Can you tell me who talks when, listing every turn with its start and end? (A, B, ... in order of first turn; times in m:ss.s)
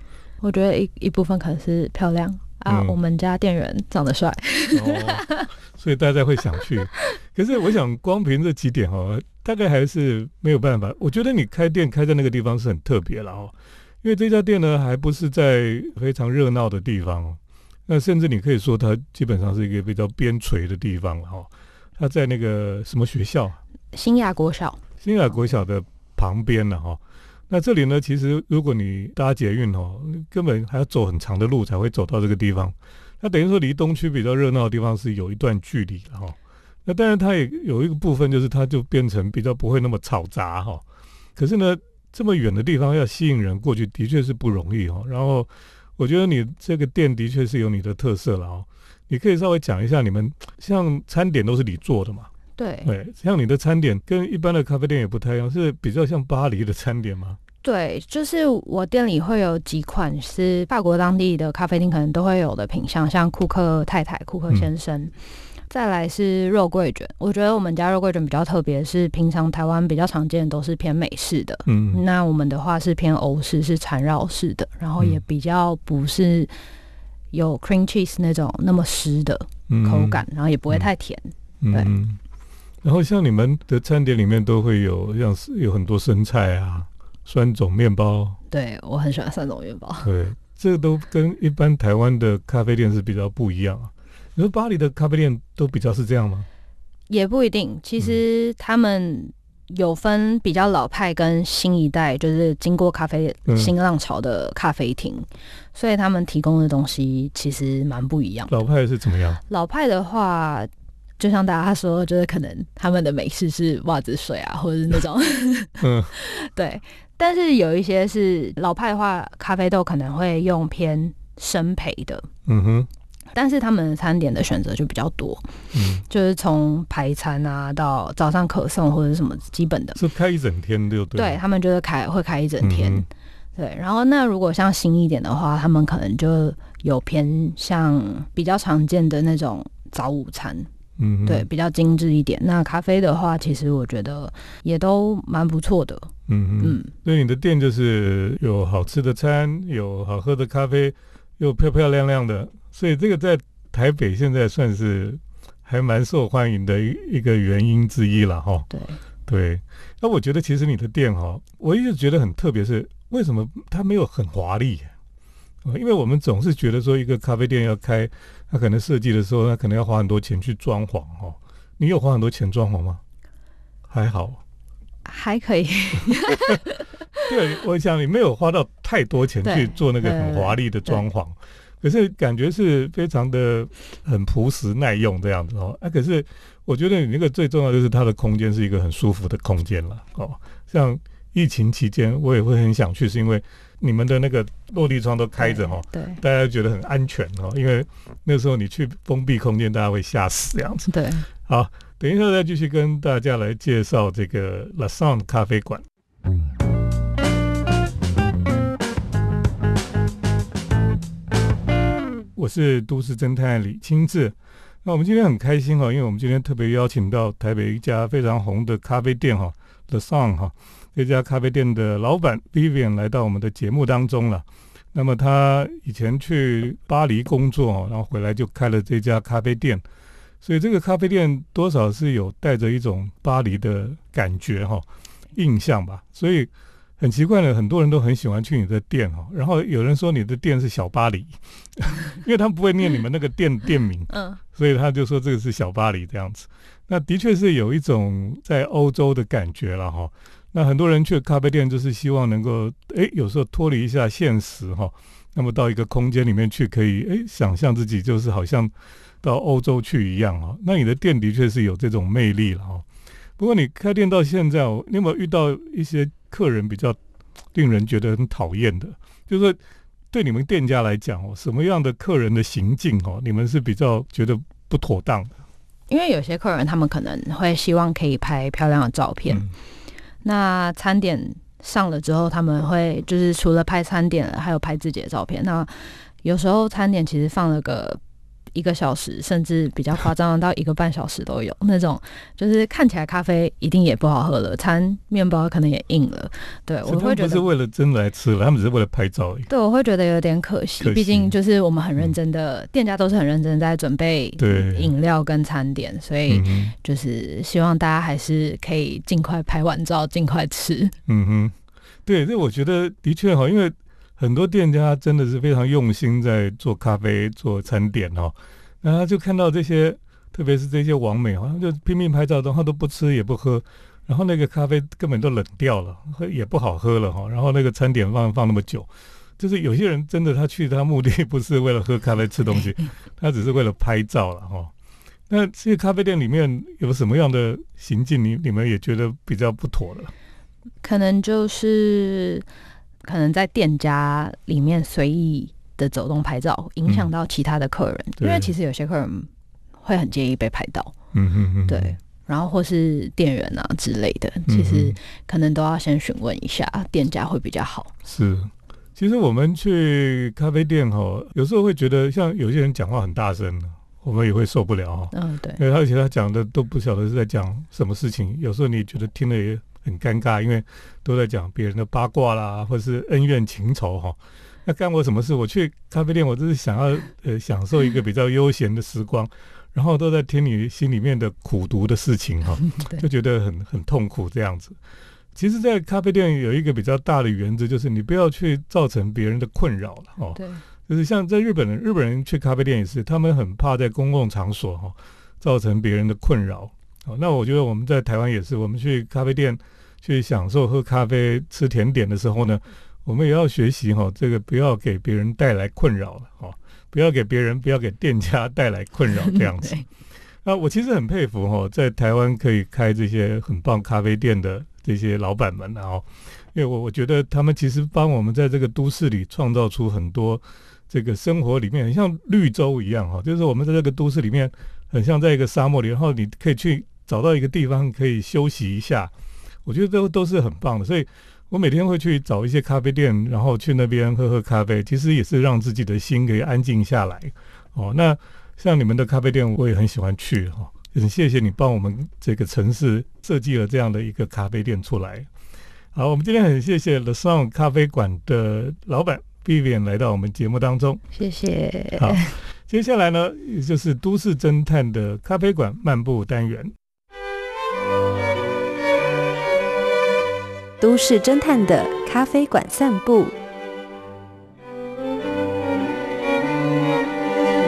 0:00.4-0:05.5 A
0:02.7-0:03.0 B
0:04.7-0:23.6 B
0:23.9-0:24.8 A
0:25.0-0:40.8 B
0:41.4-0:52.3 B
0:52.6-0:52.9 A
0:52.8-0:57.4 B
0:57.6-1:05.1 A
1:05.7-1:16.5 A
1:11.6-1:12.0 B
1:17.3-1:21.9 A
1:19.7-1:20.9 B
1:21.6-1:22.2 B
1:22.8-1:28.4 B
1:28.5-1:30.1 A
1:30.0-1:36.5 B
1:37.1-1:48.5 A
1:43.5-1:43.7 B
1:48.5-1:49.4 B
1:49.5-2:02.3 A
1:55.8-1:56.1 B
2:02.4-2:02.9 B
2:03.3-2:05.5 A
2:05.7-2:06.0 B
2:06.0-2:10.0 A
2:09.9-2:11.4 B
2:11.1-2:20.7 A
2:12.6-2:13.0 B
2:21.0-2:21.4 B
2:21.2-2:26.9 A
2:26.3-2:38.7 B
2:38.7-2:39.0 A
2:39.3-2:44.9 B
2:45.6-2:53.0 B
2:53.9-2:54.4 B
2:55.0-2:56.8 A
2:57.2-3:25.8 B
2:59.4-3:01.0 A
3:15.4-3:16.2 A
3:20.9-3:21.3 A
3:32.4-3:49.8 B
3:50.4-4:22.8 B
4:04.1-4:04.4 A
4:23.4-4:27.0 B
4:27.5-4:29.6 B
4:30.1-4:35.3 B
4:35.9-4:39.4 A
4:40.2-4:48.0 A
4:48.5-4:57.4 A
4:56.8-4:59.5 B
4:59.5-5:10.9 A
5:00.8-5:01.3 B
5:04.4-5:04.9 B
5:06.3-5:06.7 B
5:11.1-5:11.5 B
5:12.0-5:34.7 B
5:35.3-5:40.1 B
5:40.8-5:42.4 A
5:43.0-5:49.3 A
5:48.2-5:48.5 B
5:49.8-5:50.9 A
5:51.1-5:52.0 B
5:51.7-5:57.9 A
5:54.5-5:55.0 B
5:58.1-6:24.8 B
6:05.1-6:05.6 A
6:22.8-6:23.0 A
6:25.3-6:49.8 B
6:30.4-6:30.6 A
6:49.3-6:49.8 A
6:50.4-7:09.1 B
7:09.6-7:25.3 B
7:25.9-7:31.0 B
7:31.1-7:32.4 A
7:32.0-7:36.7 B
7:40.8-7:43.3 C